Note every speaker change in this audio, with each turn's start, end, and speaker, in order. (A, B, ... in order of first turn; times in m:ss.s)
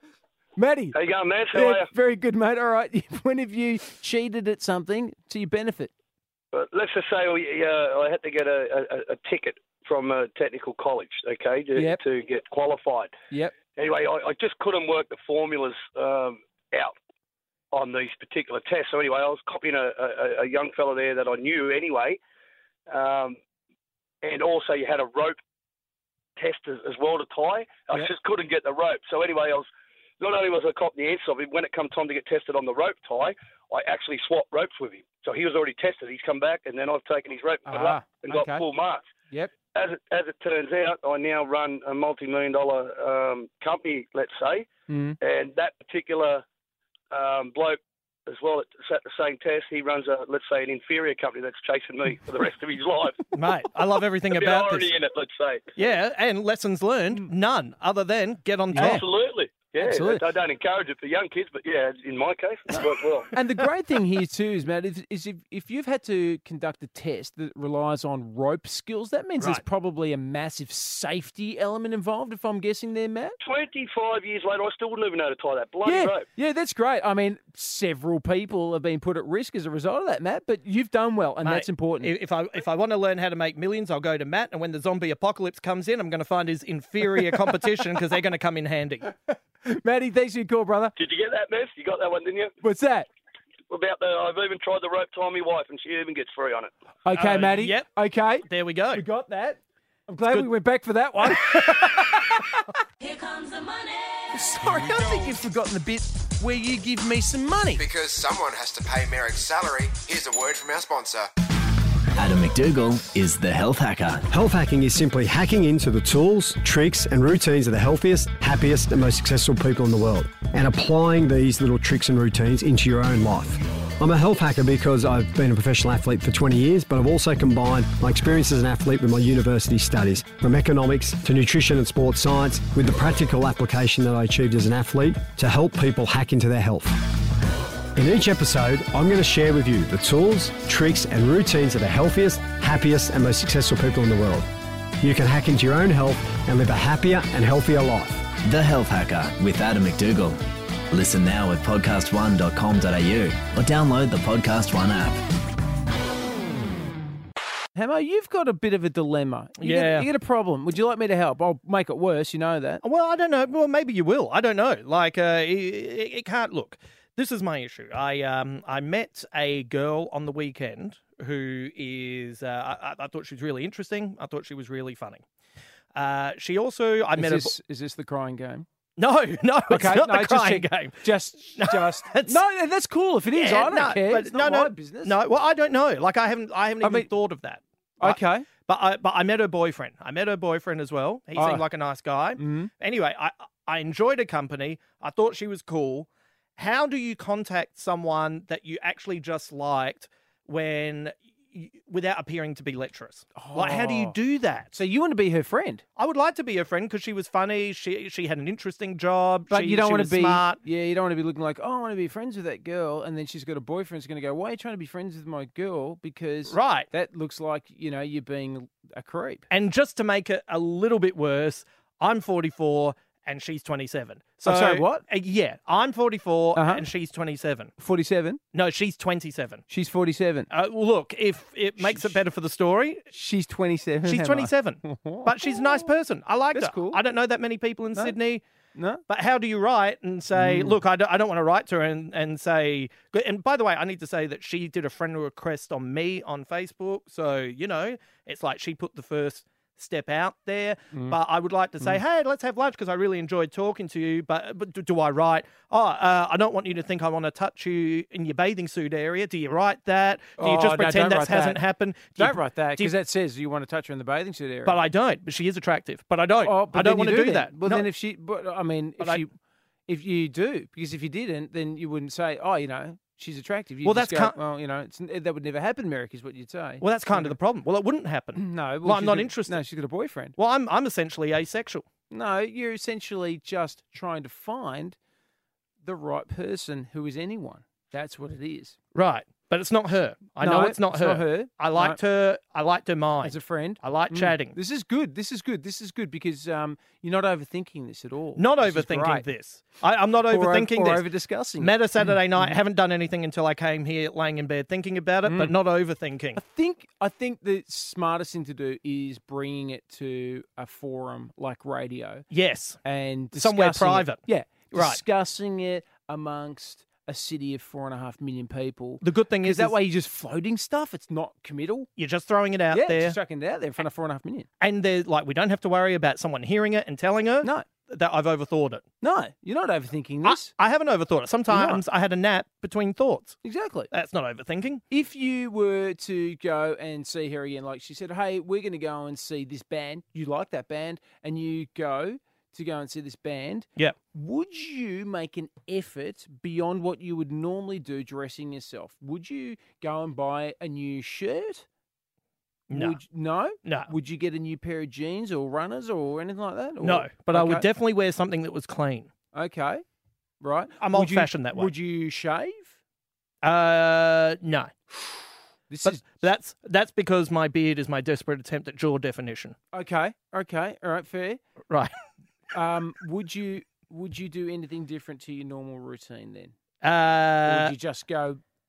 0:00.6-0:01.0 A
0:00.9-0:01.9 B
0:01.5-0:05.9 A
0:06.5-0:13.1 B
0:11.7-0:12.0 A
0:13.8-0:16.9 B
0:17.7-0:22.2 B
0:22.9-0:23.4 B
0:24.2-0:25.4 B
0:26.4-0:29.7 B
0:30.2-0:39.1 B
0:37.7-0:38.6 A
0:39.7-0:44.7 B
0:44.9-0:45.2 A
0:45.2-0:46.4 B
0:47.1-0:53.3 B
0:53.3-0:54.9 C
0:54.3-0:55.7 B
0:55.8-0:59.0 C
0:58.7-0:59.0 A
0:58.8-1:03.3 B
0:59.7-1:00.2 A
1:02.7-1:13.4 A
1:13.4-1:16.2 B
1:15.8-1:22.1 A
1:21.4-1:29.1 C
1:27.1-1:27.4 A
1:29.3-1:30.9 A
1:31.0-1:32.5 B
1:32.6-1:33.1 A
1:33.7-1:36.7 B
1:37.0-1:42.7 A
1:37.1-1:37.9 C
1:38.4-1:39.0 C
1:41.2-1:42.0 C
1:44.3-1:47.8 A
1:47.8-1:51.3 D
1:52.1-1:54.2 E
1:54.3-2:17.1 F
2:17.9-2:24.5 F
2:25.0-2:28.3 F
2:28.4-2:30.4 E
2:30.9-2:35.2 E
2:37.8-2:42.8 A
2:39.6-2:40.1 C
2:42.8-2:55.2 C
2:55.9-2:57.5 C
2:57.2-2:58.6 A
2:59.0-3:01.0 C
2:59.7-3:05.2 A
3:01.6-3:02.4 C
3:03.3-3:24.7 C
3:06.8-3:07.1 A
3:08.0-3:08.5 A
3:11.4-3:11.6 A
3:12.4-3:12.7 A
3:23.3-3:24.2 A
3:24.7-3:25.8 A
3:26.0-3:30.6 C
3:29.5-3:39.4 A
3:36.5-3:36.9 C
3:39.5-3:47.7 C
3:44.4-3:45.0 A
3:46.5-3:46.8 A
3:47.8-3:48.4 A
3:48.5-3:49.6 C
3:49.7-3:50.5 A
3:50.5-3:53.0 C
3:51.8-3:52.2 A
3:53.1-3:55.9 A
3:54.0-3:58.4 C
3:56.5-3:57.0 A
3:58.7-3:59.0 A
3:59.1-4:22.9 C
4:00.3-4:00.8 A
4:10.9-4:11.2 A
4:20.4-4:21.6 A
4:22.2-4:24.8 A
4:24.6-4:27.9 C
4:26.4-4:29.3 A
4:29.9-4:37.4 A
4:33.8-4:34.4 C
4:36.8-4:39.6 C
4:38.4-4:40.4 A
4:40.4-4:41.9 C
4:42.1-4:45.0 A
4:45.8-4:48.8 A
4:48.9-4:54.6 C
4:50.4-4:52.0 A
4:53.2-4:59.2 A
4:58.4-5:01.0 C
5:00.3-5:02.6 A
5:01.6-5:06.4 C
5:05.2-5:05.5 A
5:06.4-5:12.3 A
5:12.3-5:12.8 C
5:12.8-5:21.9 A
5:13.4-5:14.2 C
5:14.7-5:15.0 C
5:19.0-5:19.7 C
5:22.0-5:23.2 C
5:22.7-5:24.5 A
5:24.6-5:28.8 C
5:29.0-5:30.5 A
5:30.2-5:33.4 C
5:31.5-5:31.8 A
5:33.4-5:33.9 A
5:33.9-5:34.8 C
5:34.9-5:51.6 A
5:52.7-5:53.0 C
5:52.7-5:57.7 A
5:53.6-5:53.9 C
5:56.8-5:59.1 C
5:59.3-5:59.8 A
6:00.4-6:02.7 A
6:00.8-6:01.7 C
6:03.4-6:04.7 C
6:05.7-6:06.2 A
6:05.8-6:09.6 C
6:09.7-6:11.4 A
6:12.5-6:16.5 A
6:16.8-6:17.7 C
6:17.4-6:18.4 A